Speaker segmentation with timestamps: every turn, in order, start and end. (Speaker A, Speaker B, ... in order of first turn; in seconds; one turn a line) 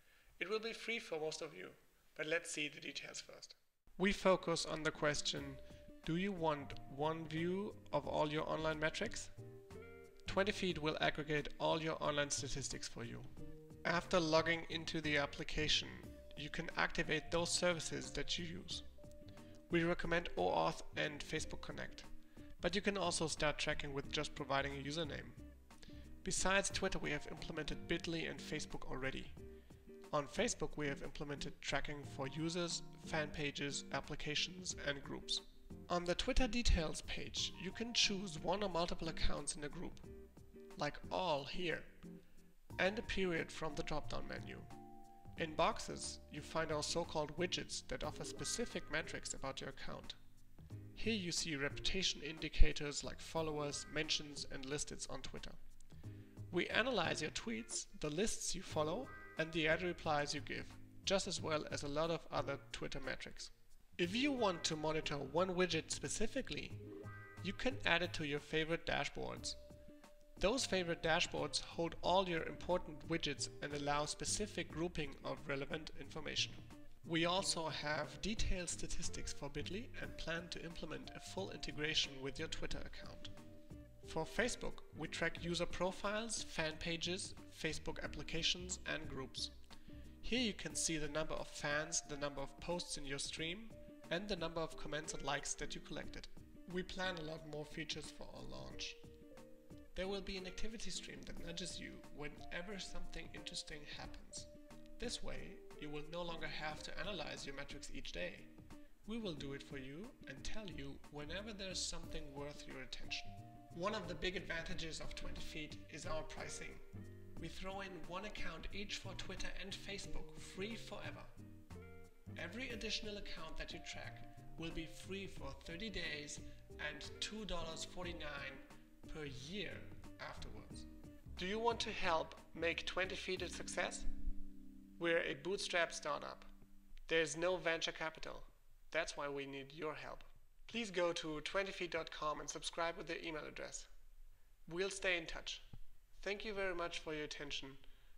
Speaker A: 0.4-9.3
Speaker A: 10.2-13.3
Speaker A: 13.8-18.9
Speaker A: 19.7-22.1
Speaker A: 22.6-25.4
Speaker A: 26.2-29.4
Speaker A: 30.1-40.0
Speaker A: 40.8-41.9
Speaker A: 42.8-44.7
Speaker A: 45.4-50.2
Speaker A: 50.9-55.6
Speaker A: 56.5-66.8
Speaker A: 67.4-69.6
Speaker A: 70.4-83.3
Speaker A: 84.0-89.5
Speaker A: 90.2-99.0
Speaker A: 99.9-108.5
Speaker A: 109.0-116.8
Speaker A: 117.4-121.3
Speaker A: 122.3-134.1
Speaker A: 135.0-136.5
Speaker A: 137.1-143.9
Speaker A: 144.7-145.6
Speaker A: 146.2-147.8